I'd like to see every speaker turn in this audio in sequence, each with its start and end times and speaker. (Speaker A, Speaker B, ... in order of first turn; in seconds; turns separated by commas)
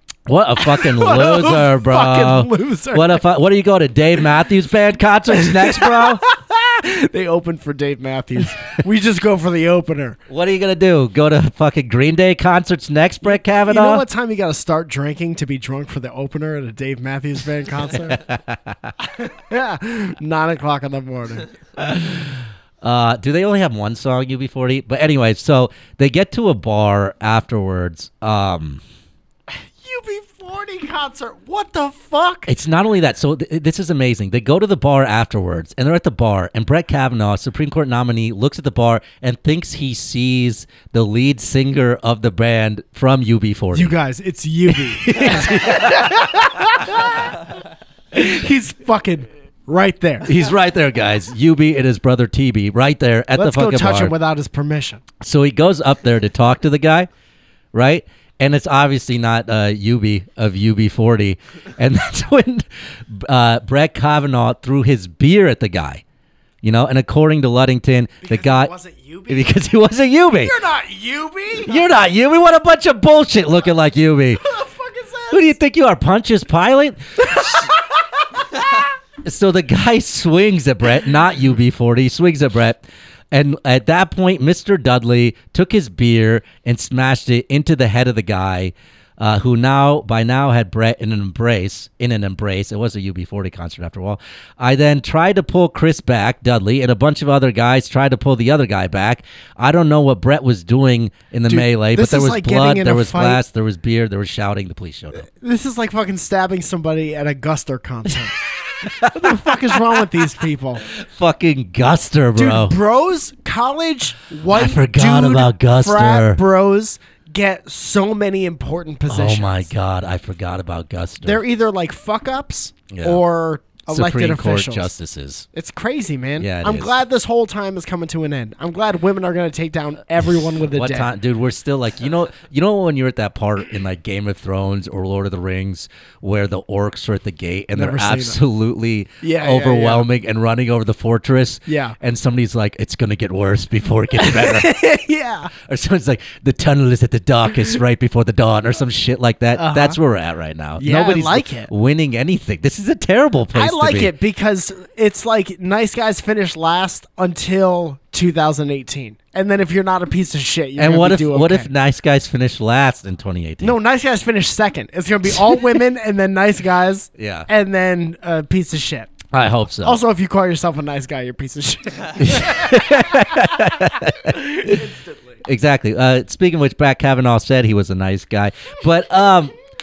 Speaker A: 0.3-6.2, Speaker B: 0.6-3.2, Speaker B: 5.4-10.2, Speaker A: 10.3-14.0, Speaker B: 13.2-18.2, Speaker A: 18.0-18.9, Speaker B: 19.0-21.5, Speaker A: 21.8-28.8, Speaker B: 29.5-32.5, Speaker A: 32.5-43.9, Speaker B: 43.7-47.3, Speaker A: 44.7-47.1, Speaker B: 48.1-50.3, Speaker A: 50.2-54.1, Speaker B: 53.3-55.0, Speaker A: 55.2-57.1, Speaker A: 57.7-66.0, Speaker A: 66.6-68.7, Speaker B: 68.2-69.7, Speaker A: 69.3-70.5, Speaker B: 70.3-71.9, Speaker A: 71.6-74.4, Speaker B: 74.4-75.5, Speaker A: 75.3-77.7, Speaker B: 77.4-77.6, Speaker A: 79.2-105.2, Speaker B: 101.5-103.4, Speaker B: 105.1-108.4, Speaker A: 108.8-110.0, Speaker B: 109.0-110.8, Speaker A: 110.9-112.8, Speaker B: 112.3-119.7, Speaker A: 114.5-116.4, Speaker A: 119.1-121.4, Speaker B: 121.2-124.9, Speaker A: 122.9-123.2, Speaker A: 123.9-125.5, Speaker B: 125.5-131.1, Speaker A: 126.4-127.0, Speaker A: 130.6-144.8, Speaker B: 137.7-138.4, Speaker B: 139.2-140.1, Speaker B: 141.7-142.0, Speaker B: 144.2-145.5, Speaker A: 145.6-154.1, Speaker B: 149.5-150.0, Speaker B: 150.8-151.7, Speaker B: 153.5-161.7, Speaker A: 160.8-163.8, Speaker B: 163.6-169.1, Speaker A: 167.2-167.5, Speaker A: 169.3-170.0, Speaker B: 169.8-173.7, Speaker A: 172.2-174.8, Speaker B: 174.2-175.1, Speaker A: 175.4-179.5